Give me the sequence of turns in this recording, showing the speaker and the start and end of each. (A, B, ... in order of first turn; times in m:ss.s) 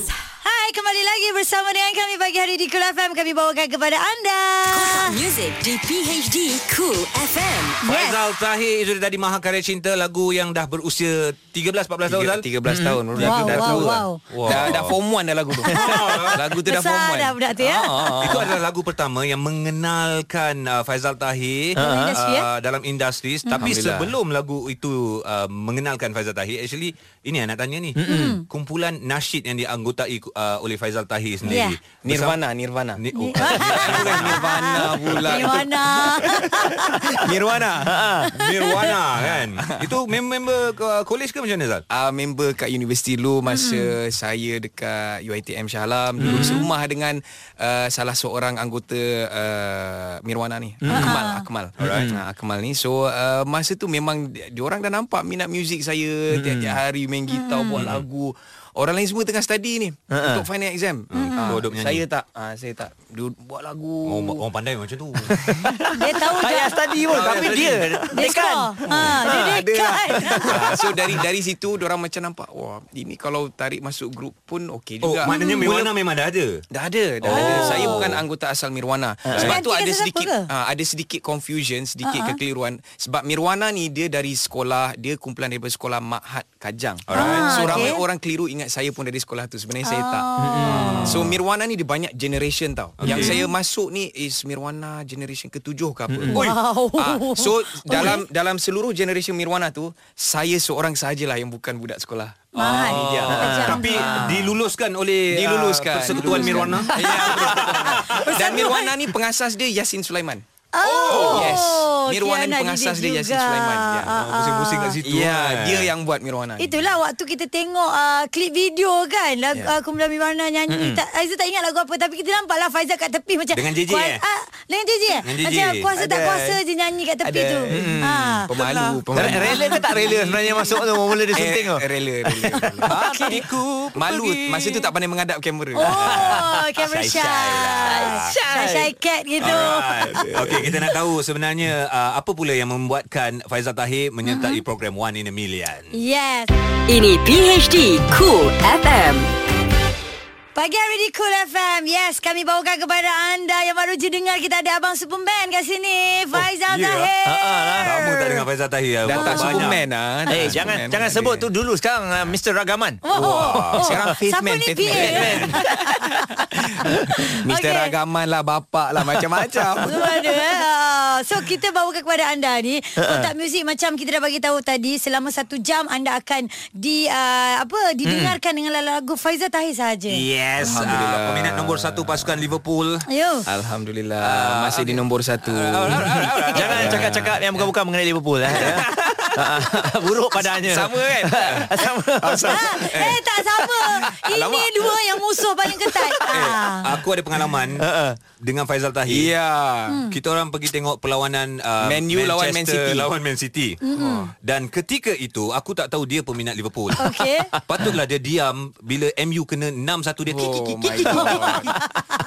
0:00.4-0:05.1 A
0:04.7-0:07.8 B
0:07.8-0:08.2 A
0:07.9-0:14.9 C
0:12.1-0:17.4 D
0:13.2-0:14.2 A
0:15.8-0:16.4 C
0:16.7-0:17.9 A
0:17.6-0:18.6 E
0:18.2-0:32.4 C
0:21.8-0:22.1 E
0:21.8-0:22.5 A
0:23.5-0:23.7 A
0:23.6-0:24.2 D
0:28.0-0:28.4 E
0:28.1-0:28.4 A
0:31.5-0:31.8 A
0:32.0-0:38.1 D
0:33.0-0:35.5 C
0:33.2-0:37.0 A
0:37.8-0:38.3 E
0:38.3-0:41.8 C
0:39.2-0:39.9 D
0:41.9-1:04.4 D
0:43.5-0:43.9 A
0:46.2-0:46.6 E
0:50.8-0:51.2 E
0:50.9-0:51.5 A
0:51.8-0:52.1 C
0:51.8-0:52.2 E
0:56.3-0:56.8 E
0:57.3-0:57.8 A
0:57.7-0:58.0 C
1:00.1-1:00.4 E
1:01.1-1:02.0 C
1:01.2-1:01.6 A
1:04.1-1:05.5 C
1:05.3-1:09.6 E
1:05.9-1:07.4 A
1:07.1-1:08.2 C
1:08.1-1:10.5 A
1:09.1-1:15.9 D
1:10.2-1:10.7 E
1:15.0-1:16.6 C
1:15.3-1:15.7 A
1:16.7-1:30.3 D
1:17.2-1:18.2 C
1:17.3-1:18.0 A
1:19.4-1:20.5 A
1:22.0-1:22.4 A
1:27.1-1:27.9 C
1:27.2-1:28.0 A
1:29.8-1:31.1 A
1:30.4-1:31.2 E
1:30.7-1:31.3 C
1:31.0-1:44.5 D
1:33.0-1:33.4 C
1:33.1-1:33.5 A
1:36.3-1:36.6 C
1:36.3-1:38.2 A
1:42.6-1:44.0 A
1:42.6-1:48.3 C
1:43.3-1:44.4 E
1:45.3-1:50.4 D
1:46.1-1:48.9 A
1:50.8-1:55.0 A
1:50.8-1:51.6 C
1:51.1-1:54.2 D
1:54.1-1:55.9 C
1:55.0-1:56.9 D
1:56.6-2:08.5 A
2:00.7-2:01.0 E
2:03.5-2:04.2 C
2:05.2-2:05.9 C
2:06.0-2:06.5 D
2:07.2-2:10.7 D
2:07.7-2:12.8 E
2:09.4-2:09.8 A
2:11.3-2:13.0 D
2:12.9-2:14.9 C
2:13.0-2:13.3 A
2:14.0-2:16.4 D
2:15.8-2:20.2 A
2:16.1-2:18.3 C
2:18.2-2:18.9 E
2:19.4-2:26.0 C
2:20.4-2:20.7 D
2:24.3-2:24.6 A
2:25.9-2:26.5 A
2:26.9-2:29.3 B
2:30.6-2:38.4 A
2:36.7-2:37.1 C
2:37.3-2:38.0 E
2:37.8-2:39.8 C
2:39.0-2:41.5 D
2:39.3-2:39.8 A
2:40.3-2:43.0 E
2:43.0-2:45.4 A
2:43.1-2:43.8 C
2:43.7-2:45.6 D
2:45.0-2:46.2 E
2:46.5-2:50.0 D
2:47.4-2:47.9 A
2:49.1-2:49.9 E
2:49.9-3:00.2 A
2:53.0-2:53.3 E
2:58.0-2:58.4 E
3:00.1-3:03.0 C
3:00.6-3:02.4 D
3:03.1-3:03.4 A
3:03.5-3:07.3 D
3:04.2-3:07.7 C
3:05.9-3:12.8 E
3:08.5-3:09.4 C
3:10.6-3:11.8 D
3:12.2-3:13.1 C
3:12.5-3:16.8 A
3:14.3-3:14.9 C
3:16.2-3:17.9 C
3:17.8-3:18.2 E
3:18.4-3:19.3 C
3:19.1-3:20.1 D
3:20.1-3:23.8 C
3:21.8-3:23.1 D
3:23.8-3:24.3 A
3:24.0-3:24.3 D
3:24.4-3:27.0 C
3:27.0-3:27.5 A
3:27.0-3:27.9 E
3:27.7-3:31.5 C
3:30.3-3:31.7 D
3:30.9-3:31.6 E